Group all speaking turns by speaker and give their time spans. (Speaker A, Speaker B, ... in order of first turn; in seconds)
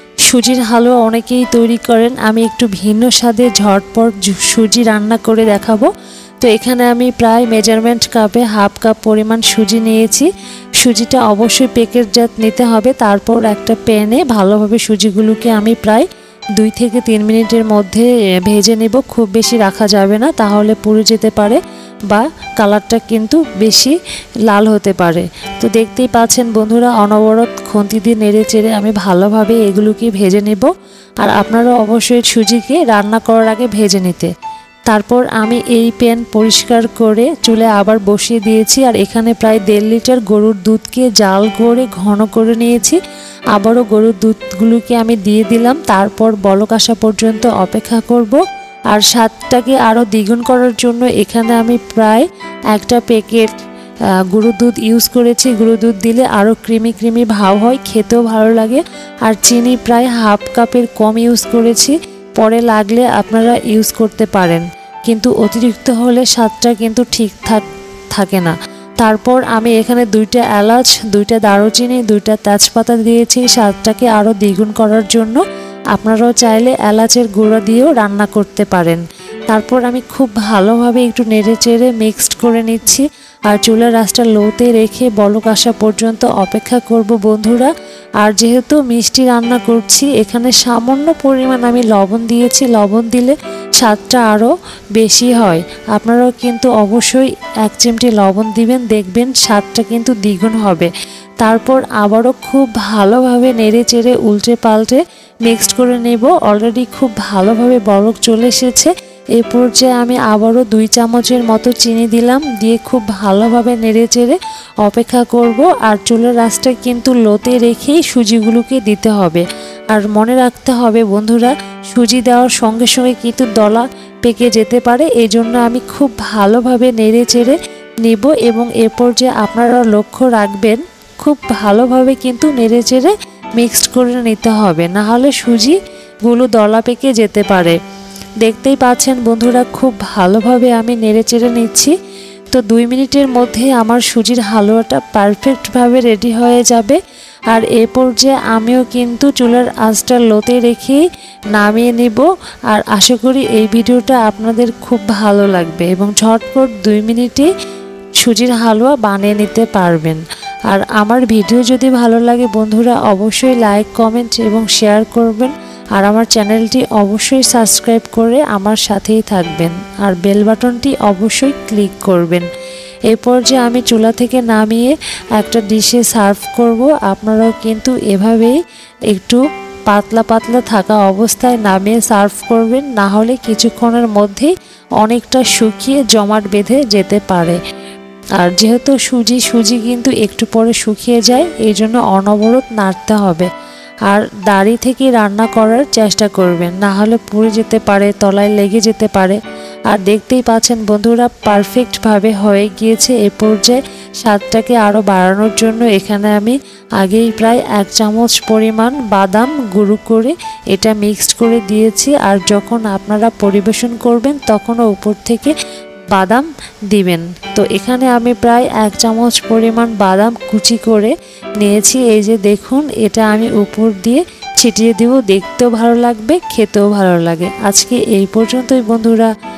Speaker A: 0.2-5.9, 6.4-10.3, 10.8-16.1, 16.6-23.9, 24.5-30.7, 31.2-34.3, 34.9-43.0, 43.5-53.5, 54.3-75.4, 75.9-137.8, 138.4-141.9, 142.5-147.0, 147.5-151.0, 151.5-157.5, 158.2-172.4, 173.1-178.6, 179.1-187.6, 188.4-193.5, 194.1-215.6, 216.1-229.3